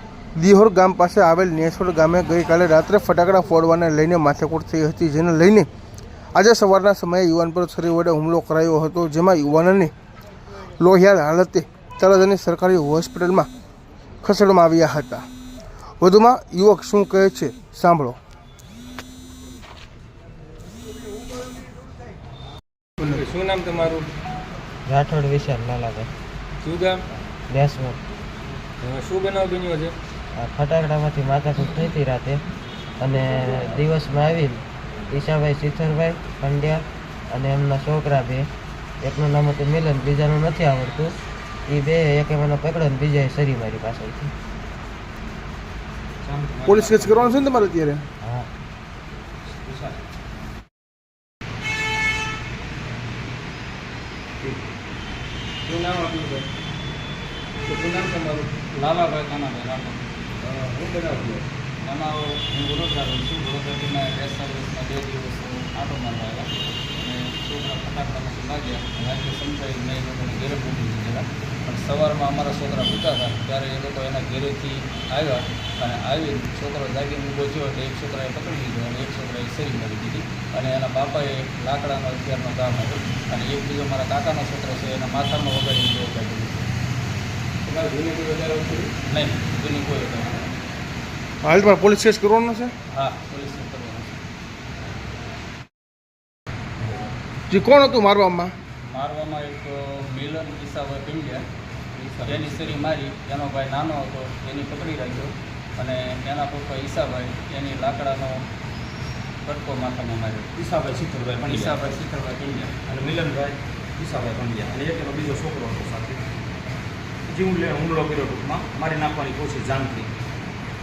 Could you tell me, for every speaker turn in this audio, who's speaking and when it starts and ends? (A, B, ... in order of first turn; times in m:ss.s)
0:00.3-0:05.7 A
0:06.3-0:09.9 A
0:10.8-0:13.5 A
0:14.2-0:15.2 A
0:16.0-0:18.2 A
0:23.0-0:24.1 B
0:24.8-0:26.1 C
0:26.6-0:27.0 B
0:27.5-0:28.0 C
0:28.8-0:30.0 B
0:30.3-0:32.4 C
0:33.0-0:38.5 C
0:39.0-0:44.3 C
0:46.2-0:47.7 D
0:46.6-0:48.0 A
0:48.2-0:48.5 C
0:49.6-0:50.0 D
0:55.6-0:56.5 B
0:57.6-0:58.5 B
0:58.7-1:00.0 E
1:00.4-1:01.4 D
1:01.8-1:26.7 E
1:27.6-1:28.9 B
1:29.0-1:30.5 E
1:31.4-1:32.7 A
1:32.9-1:34.2 E
1:37.5-1:38.5 A
1:38.8-1:41.4 E
1:42.0-1:42.8 D
1:42.2-1:48.4 E
1:49.4-1:50.5 E
1:50.6-1:51.8 D
1:51.5-1:52.8 E
1:52.8-1:56.2 D
1:57.3-2:00.1 D